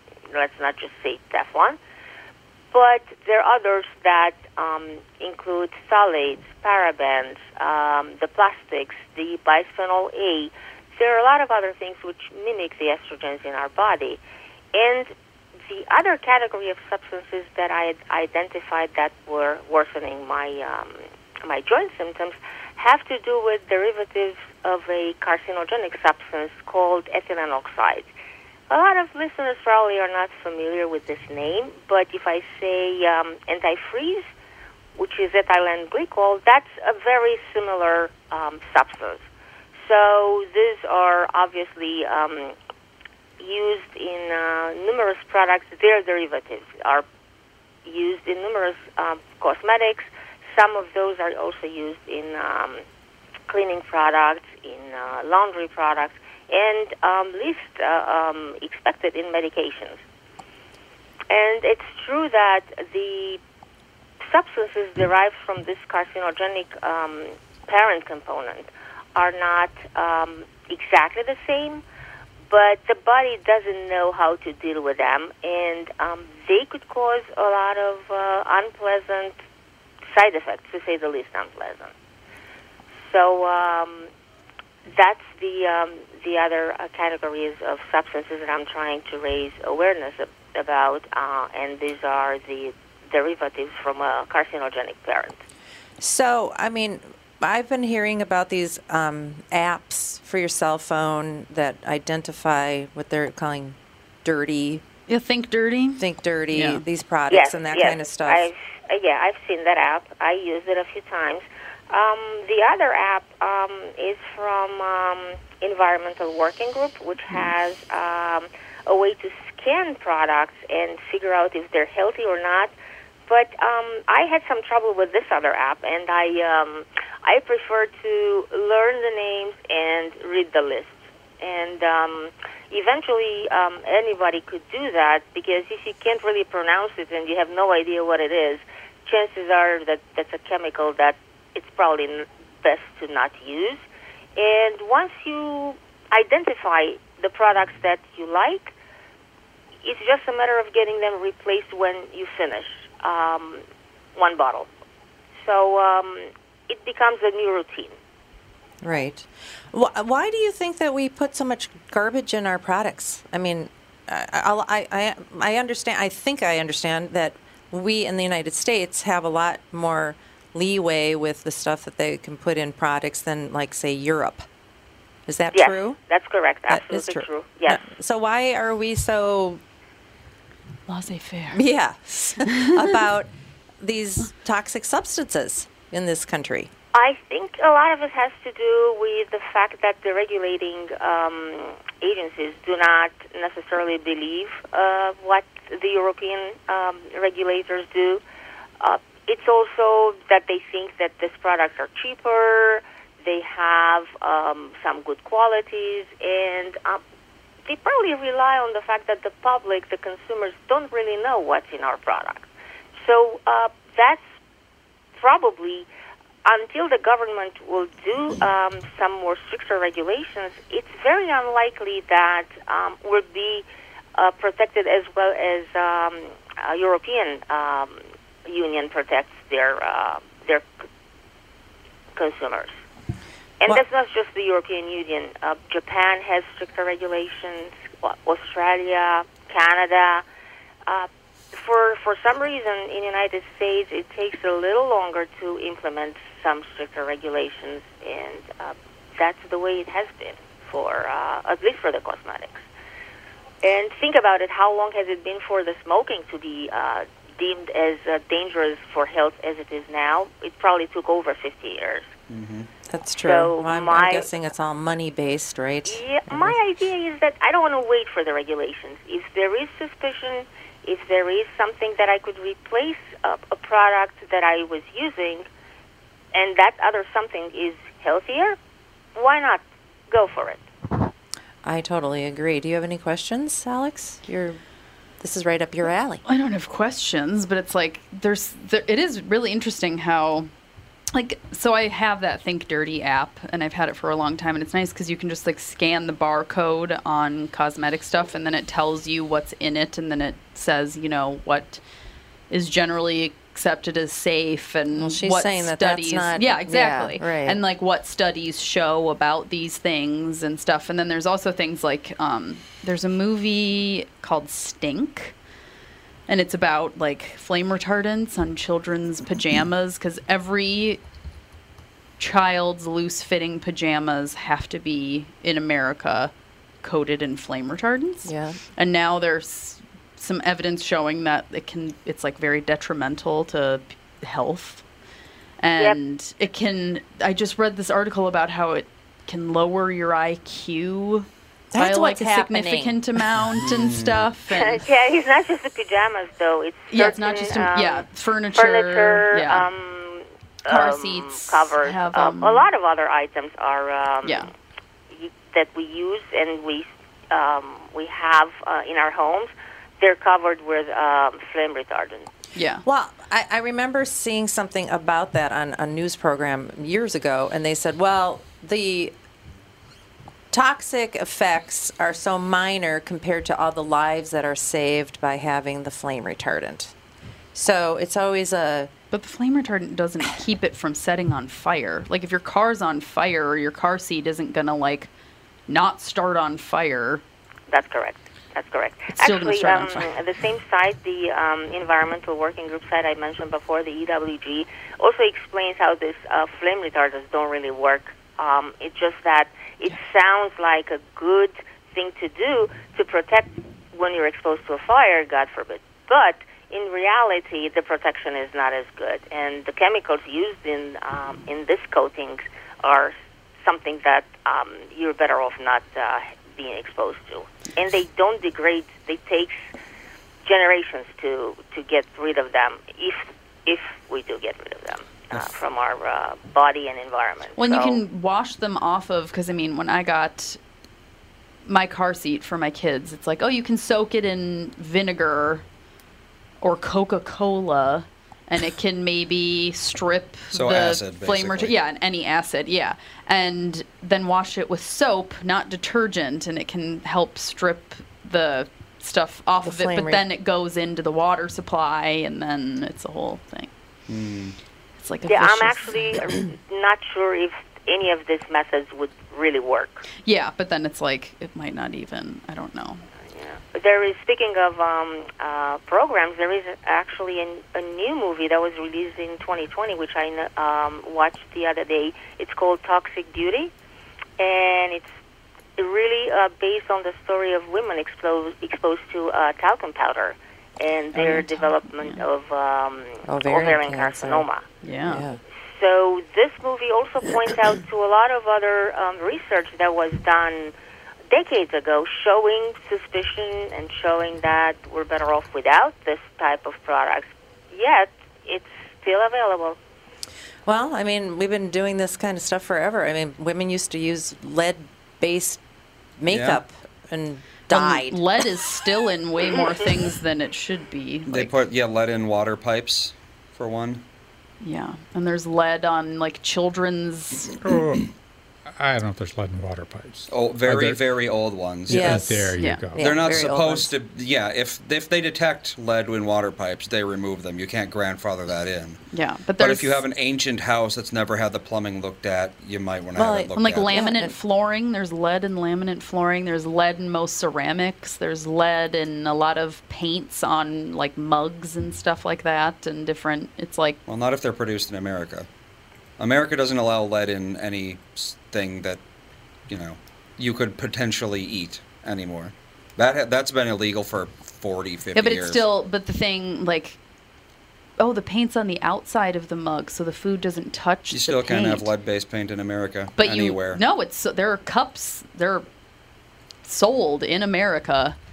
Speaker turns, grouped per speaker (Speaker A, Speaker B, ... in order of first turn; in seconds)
Speaker A: 0.3-1.8, 2.7-14.2, 14.7-15.1, 15.7-28.1, 28.7-34.3, 34.9-42.6, 43.4-47.0, 47.8-52.8, 53.5-60.0, 61.3-63.4, 64.2-71.8, 72.5-79.3, 80.1-81.9, 83.0-84.1, 84.8-95.4, 107.3-122.7, 123.3-143.8, 144.3-148.7, 149.8-153.6, 154.1-154.7, 155.4-157.9, 175.5-177.8, 186.9-198.2, 198.8-207.0, 207.6-214.2, 215.1-215.9, 216.4-223.6, 224.2-230.7, 232.1-232.8, 233.6-240.2, 240.8-252.6, 253.6-262.1, 263.2-264.3, 265.9-275.5, 276.3-278.6, 279.1-280.6, 344.5-354.5, 355.1-362.3, 387.7-419.6, 420.4-428.0, 455.3-460.0, 463.3-473.7, 474.4-475.1, 475.8-484.6, 485.6-490.7, 491.3-499.8
Speaker B: 96.0-104.8, 106.0-108.5, 158.8-174.4, 175.3-176.0, 176.7-179.6, 181.5-186.7, 262.9-266.6, 281.6-284.6, 285.2-286.2, 304.9-307.6, 328.2-328.6, 341.7-343.0, 362.8-369.1, 370.5-376.9, 377.5-378.9, 449.6-450.2, 481.1-481.7, 483.3-484.5, 485.1-485.4, 500.6-505.6, 506.2-508.2, 521.9-523.9, 533.1-534.3
Speaker C: 105.1-106.8, 180.9-181.6, 286.2-290.5, 291.1-301.8, 302.5-315.3, 316.3-321.0, 322.2-326.3, 326.8-334.8, 335.6-344.8, 346.9-349.7, 350.7-352.7, 354.2-354.5, 362.5-362.8, 379.1-385.1, 385.7-387.2, 389.1-390.2, 427.6-430.6, 431.6-435.6, 436.6-453.7, 455.0-456.2, 460.2-463.1, 484.8-485.2, 507.7-511.5, 514.6-517.5, 522.6-522.9, 529.1-530.0, 533.5-544.0, 555.1-557.0, 558.0-561.9, 563.2-565.7, 566.6-568.2
Speaker D: 262.3-262.7, 343.5-344.3, 425.3-425.6, 440.5-441.8, 454.1-454.6, 506.3-506.6, 511.3-514.0, 520.3-522.2, 523.0-529.0, 529.6-534.0, 544.1-545.5, 546.2-549.0, 549.7-555.7, 561.1-563.8
Speaker E: 517.6-518.1, 518.7-521.0, 521.9-523.1